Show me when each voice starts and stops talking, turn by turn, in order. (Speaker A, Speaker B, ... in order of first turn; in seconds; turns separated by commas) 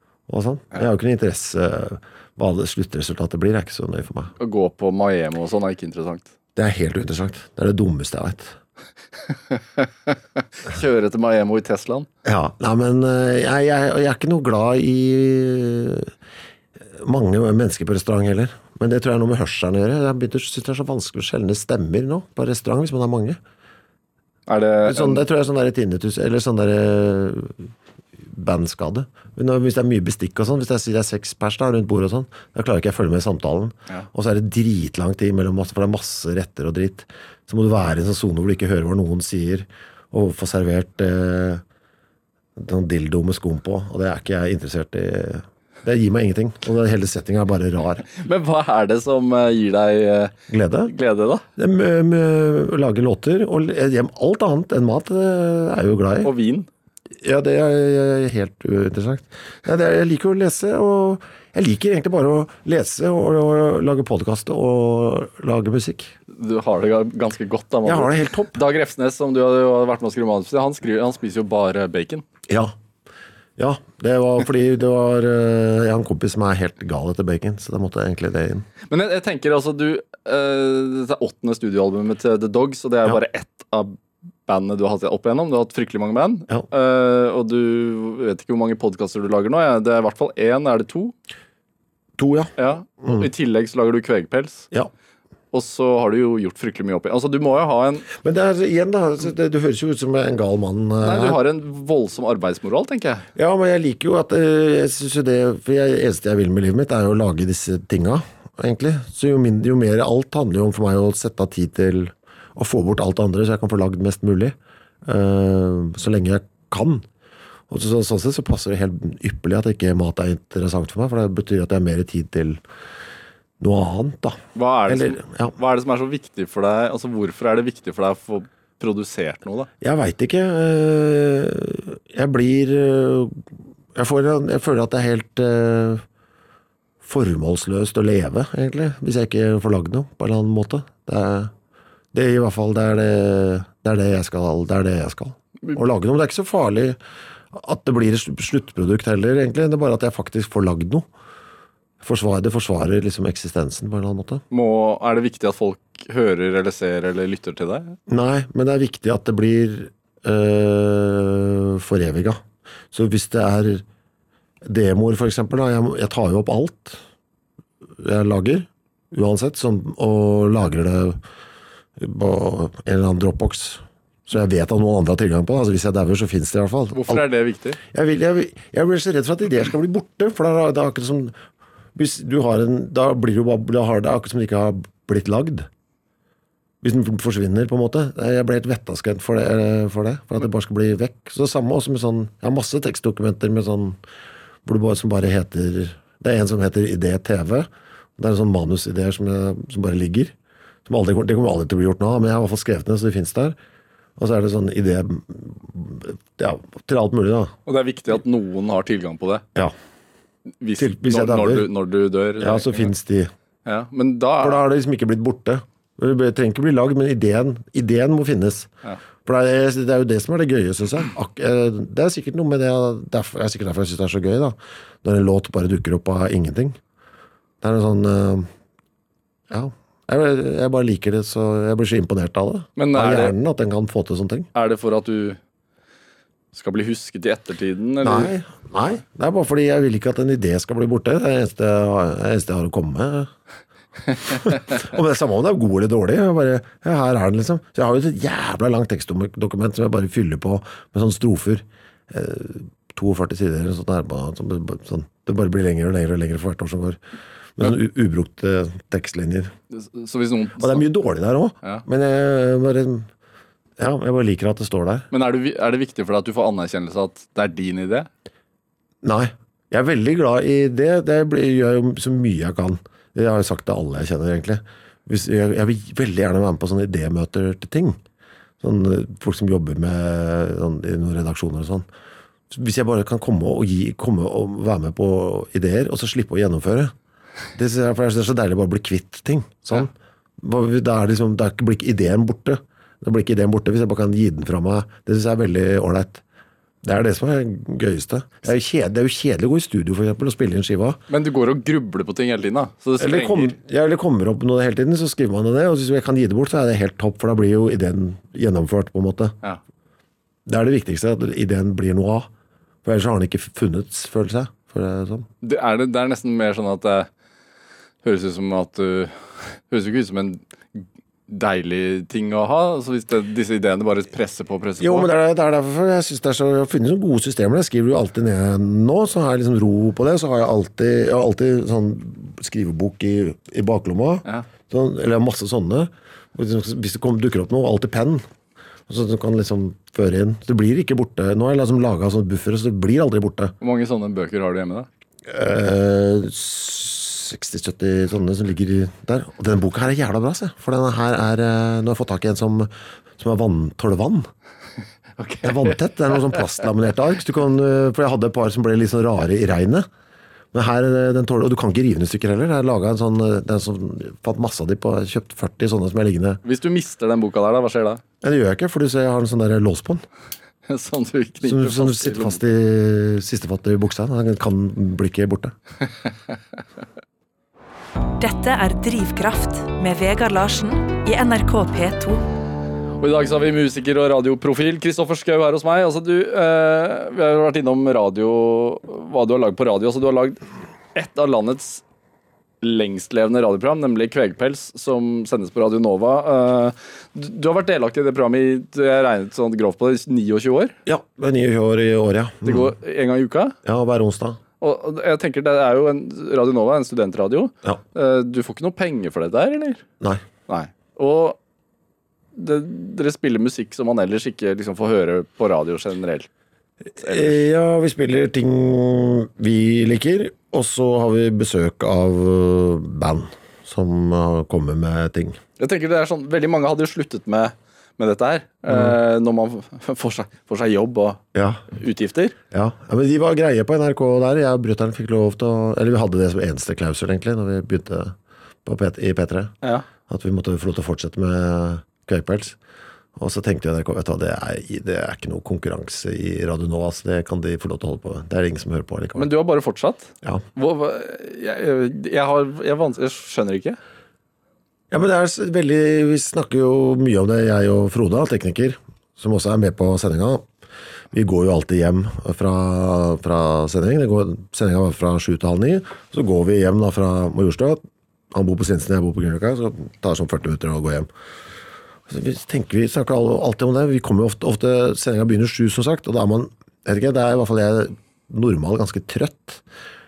Speaker A: 0.3-4.3, Speaker B: 4.4-6.3, Speaker A: 6.6-8.6, Speaker B: 9.3-12.1, Speaker A: 12.2-16.1, Speaker A: 16.9-23.4, Speaker B: 24.5-25.2, Speaker A: 24.8-27.7, Speaker A: 28.2-41.6, Speaker A: 42.6-48.1, Speaker B: 48.1-50.3, Speaker A: 50.5-50.9, Speaker B: 50.9-51.5, Speaker A: 51.6-56.3, Speaker B: 56.2-56.7, Speaker A: 57.2-66.1, Speaker B: 66.3-72.2, Speaker A: 67.8-68.6, Speaker A: 72.5-72.7, Speaker A: 73.6-78.7, Speaker B: 78.9-91.1, Speaker A: 92.2-92.5, Speaker B: 92.6-94.7, Speaker B: 95.5-98.1, Speaker A: 98.1-101.4, Speaker B: 101.0-103.3, Speaker A: 103.3-117.1, Speaker A: 117.7-122.6, Speaker A: 123.6-125.5, Speaker B: 124.5-129.7, Speaker A: 129.8-133.4, Speaker A: 133.9-136.0, Speaker A: 137.0-141.5, Speaker A: 142.1-147.0, Speaker A: 147.5-151.1, Speaker A: 152.0-154.4, Speaker B: 154.5-158.0, Speaker A: 158.1-162.4, Speaker A: 162.9-163.8, Speaker A: 164.6-167.0, Speaker A: 168.0-171.2, Speaker A: 172.0-177.2, Speaker B: 176.9-177.8, Speaker A: 177.8-181.3, Speaker A: 181.9-185.7, Speaker A: 186.8-194.0, Speaker A: 194.7-200.3, Speaker A: 200.9-203.6, Speaker A: 204.2-207.5, Speaker B: 207.7-209.4, Speaker B: 210.6-212.9, Speaker A: 210.8-211.7, Speaker A: 212.4-213.3, Speaker B: 213.7-214.6, Speaker A: 214.4-218.7, Speaker A: 219.2-226.8, Speaker A: 227.6-228.5, Speaker A: 229.5-234.5, Speaker B: 232.8-233.3, Speaker B: 234.6-235.4, Speaker B: 236.5-238.3, Speaker A: 238.0-243.3, Speaker A: 244.2-257.0, Speaker A: 257.6-259.5, Speaker B: 259.7-260.8, Speaker A: 260.6-263.1, Speaker A: 263.8-265.1, Speaker B: 265.1-268.1, Speaker A: 269.0-278.0, Speaker A: 278.6-281.9, Speaker A: 282.5-286.9, Speaker A: 287.5-296.2, Speaker A: 296.8-301.0, Speaker B: 301.1-303.6, Speaker A: 303.0-309.4, Speaker A: 310.5-312.3, Speaker A: 312.8-315.3, Speaker B: 315.4-317.1, Speaker B: 318.0-325.1, Speaker A: 324.8-338.2, Speaker A: 338.9-343.5, Speaker B: 343.6-344.9, Speaker A: 345.3-354.3, Speaker B: 355.2-355.7, Speaker A: 355.4-359.9, Speaker A: 360.5-366.4, Speaker B: 366.4-368.0, Speaker A: 368.2-370.1, Speaker B: 370.7-372.4, Speaker A: 371.4-375.5, Speaker B: 376.1-376.4, Speaker C: 378.2-382.2, Speaker B: 383.0-390.4, Speaker B: 390.9-391.8, Speaker B: 392.6-400.8, Speaker A: 400.9-402.7, Speaker B: 402.4-403.6, Speaker A: 403.6-404.4, Speaker B: 404.6-409.8, Speaker B: 410.5-411.4, Speaker B: 412.4-416.3, Speaker A: 416.9-425.4, Speaker B: 417.0-417.3, Speaker B: 425.6-432.4, Speaker A: 428.7-429.0, Speaker A: 431.4-431.6, Speaker A: 432.5-439.5, Speaker A: 440.1-442.6, Speaker A: 443.2-449.3, Speaker B: 449.2-453.8, Speaker A: 454.9-460.5, Speaker A: 461.1-467.8, Speaker A: 468.3-471.1, Speaker A: 472.1-479.6